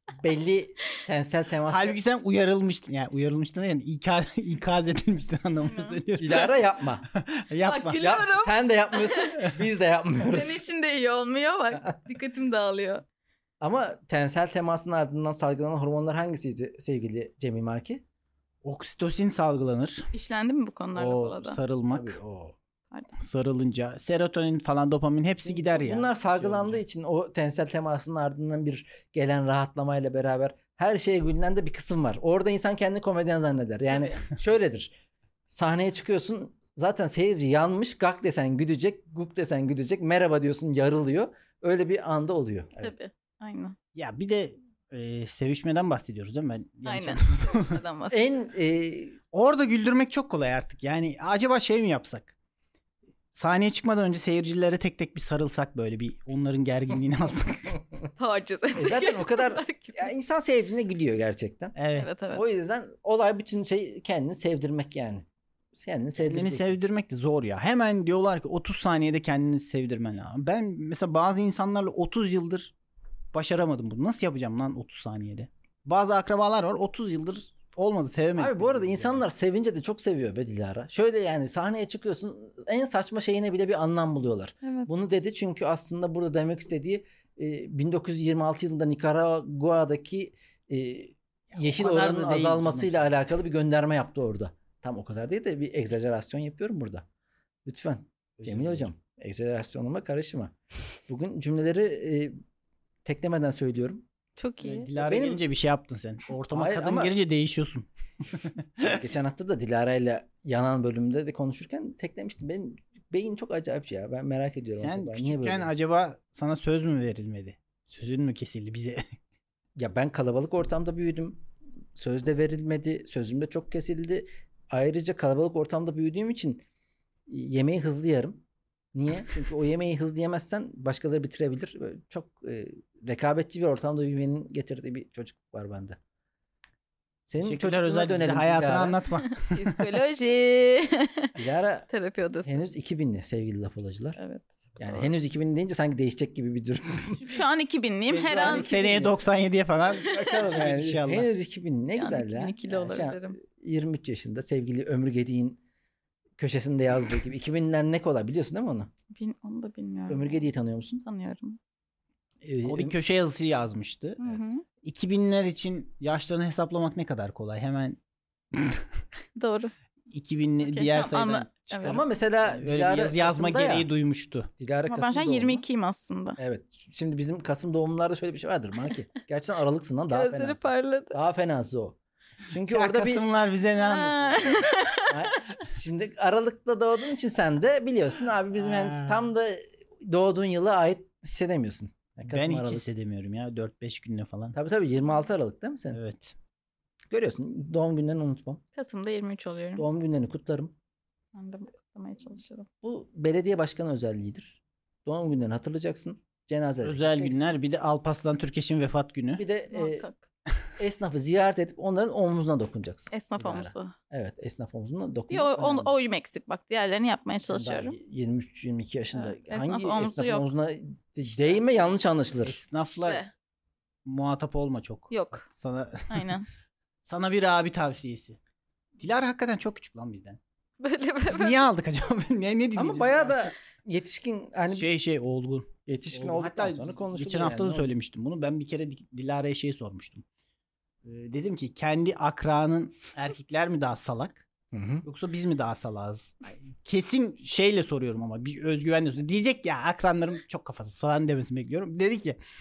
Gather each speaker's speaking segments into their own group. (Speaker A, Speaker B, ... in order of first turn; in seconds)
Speaker A: 0.2-2.0, 6.2-7.0, 8.0-10.7, 13.6-18.0, 21.9-22.2, 25.5-34.9, 35.5-42.9, 48.1-49.2, 58.8-61.8, 62.3-66.8, 78.4-97.0, 97.6-100.5, 101.1-102.3, 103.0-104.0, 105.0-105.4, 106.5-107.1, 108.8-115.7, 119.8-121.4, 121.9-126.6, 127.3-128.4, 128.9-136.0, 137.3-139.0, 141.4-141.9, 142.4-144.2, 144.8-147.2, 148.3-149.2, 150.0-155.6, 156.4-158.9, 160.1-161.0, 162.4-162.9, 171.8-173.9, 174.6-175.6, 176.4-182.0, 182.5-183.2, 185.1-192.8, 194.5-196.0, 197.1-198.6, 199.8-200.7, 202.8-207.5, 209.4-210.1, 210.8-215.9, 217.5-222.6, 232.8-234.9, 235.9-237.9, 244.7-245.0
Speaker B: 1.7-8.0, 18.6-20.1, 20.9-22.5, 23.2-26.8, 43.9-47.8, 49.3-52.3, 53.4-57.8, 61.8-62.1, 66.2-72.7, 73.3-79.2, 91.5-93.1, 98.4-98.9, 104.6-109.0, 114.8-119.0, 137.4-139.9, 148.1-151.3, 162.6-164.2, 164.8-168.0, 168.5-168.8, 170.1-174.5, 182.7-184.5, 188.6-189.3, 192.3-194.5, 195.9-196.3, 206.8-209.4, 222.4-223.2, 224.1-226.3, 227.1-228.4, 229.0-230.4, 231.3-233.5, 234.7-240.2, 241.0-244.4, 245.0-252.4
Speaker C: 5.6-6.0, 7.6-9.4, 10.3-13.0, 20.1-21.6, 33.9-34.2, 42.8-43.8, 46.9-48.2, 58.2-60.1, 62.0-62.4, 84.6-84.9, 104.4-104.9, 139.2-141.3, 141.9-142.6, 144.2-145.1, 147.2-148.7, 151.9-153.4, 159.1-160.4, 161.0-161.6, 164.2-164.6, 169.4-169.7, 170.6-172.0, 174.9-176.4, 180.1-181.2, 183.8-185.4, 198.8-199.8, 201.3-202.7, 209.7-210.2, 213.1-213.9, 215.3-217.9, 219.1-220.5, 222.9-223.3, 225.1-225.4, 226.1-226.4, 230.8-231.6